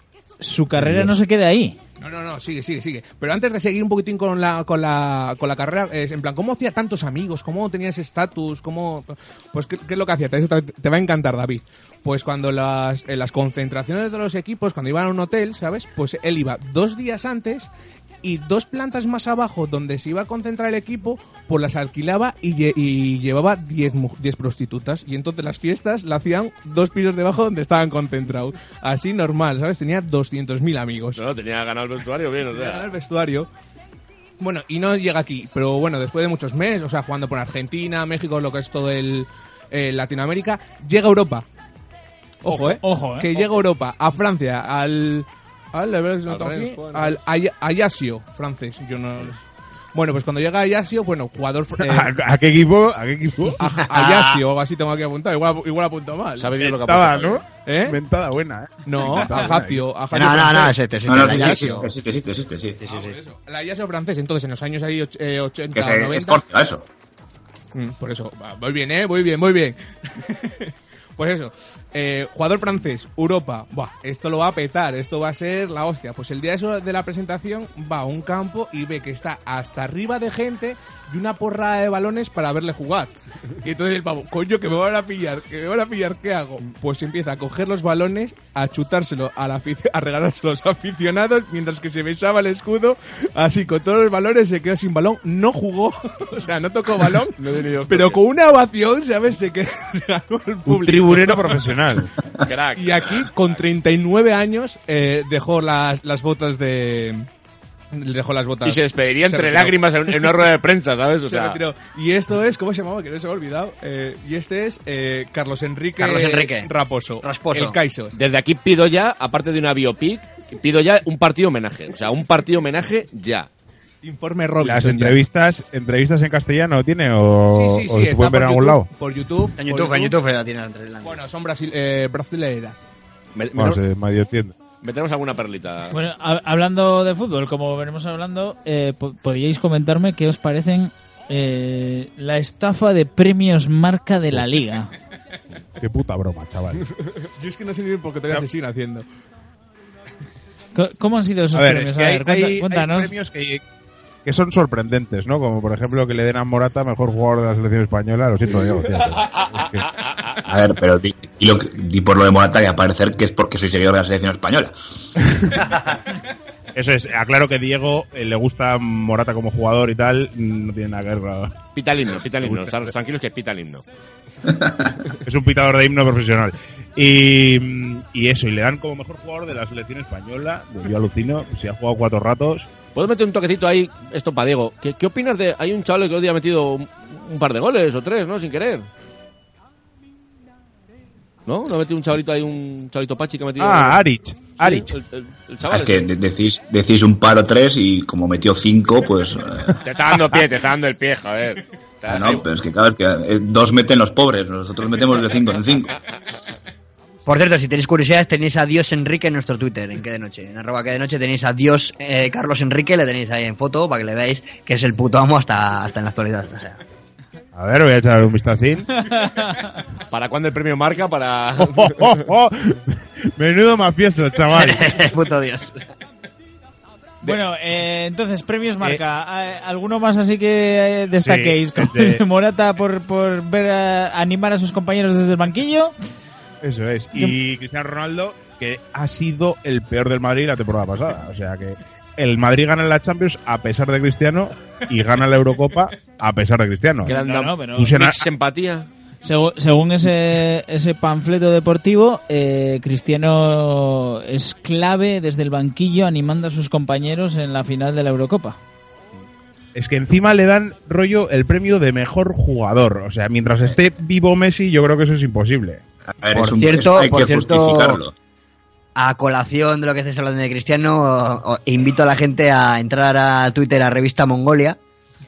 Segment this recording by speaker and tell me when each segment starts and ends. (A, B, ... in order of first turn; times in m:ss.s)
0:00.4-0:01.8 A
0:00.8-0:01.1 B
0:02.0-0:17.7 C
0:18.2-0:31.2 C
0:31.2-0:32.9 D
0:32.5-0:33.5 C
0:34.4-0:41.5 C
0:42.4-0:49.4 C
0:42.5-0:43.4 A
0:46.3-0:47.2 D
0:49.9-0:52.1 C
0:51.8-0:53.6 B
0:53.6-0:56.7 C
0:53.9-0:54.4 E
0:56.4-0:57.4 D
0:56.7-0:59.8 B
0:57.7-0:58.0 C
0:58.9-1:01.7 C
1:00.1-1:01.9 E
1:01.1-1:03.1 F
1:02.8-1:06.4 C
1:05.7-1:06.9 F
1:07.7-1:23.1 C
1:23.6-1:41.7 C
1:37.4-1:38.2 D
1:40.7-1:42.1 B
1:42.4-1:43.6 D
1:42.8-1:47.3 C
1:47.9-1:50.5 C
1:48.6-1:51.6 D
1:51.3-1:58.1 C
1:56.0-1:56.7 E
1:57.2-1:57.8 E
1:58.1-2:03.5 D
2:04.0-2:05.2 C
2:04.6-2:08.9 B
2:07.5-2:10.2 C
2:09.6-2:11.2 E
2:11.0-2:12.8 C
2:13.4-2:13.8 D
2:13.6-2:14.5 B
2:14.8-2:16.0 D
2:15.9-2:24.9 A
2:25.8-2:26.9 B
2:27.4-2:29.0 C
2:30.8-2:33.1 A
2:31.5-2:33.6 B
2:34.2-2:39.9 B
2:40.4-2:45.1 F
2:45.4-2:45.7 B
2:46.8-2:51.6 B
2:51.8-2:53.8 D
2:52.4-2:52.8 B
2:55.2-3:02.7 B
3:03.0-3:08.9 D
3:11.5-3:14.0 D
3:13.6-3:14.9 B
3:14.6-3:16.0 D
3:15.7-3:19.8 F
3:19.8-3:22.4 D
3:22.1-3:25.9 F
3:27.3-3:36.8 E
3:37.6-3:39.0 B
3:39.1-3:39.7 A
3:40.1-3:42.2 D
3:41.6-3:45.0 B
3:44.6-3:45.8 E
3:47.2-3:55.9 A
3:51.2-3:52.2 B
3:56.6-4:07.1 B
4:07.1-4:08.0 A
4:07.1-4:08.9 D
4:07.8-4:08.2 B
4:09.2-4:18.6 A
4:19.8-4:25.8 B
4:26.2-4:28.1 F
4:26.4-4:28.0 E
4:29.0-4:34.8 E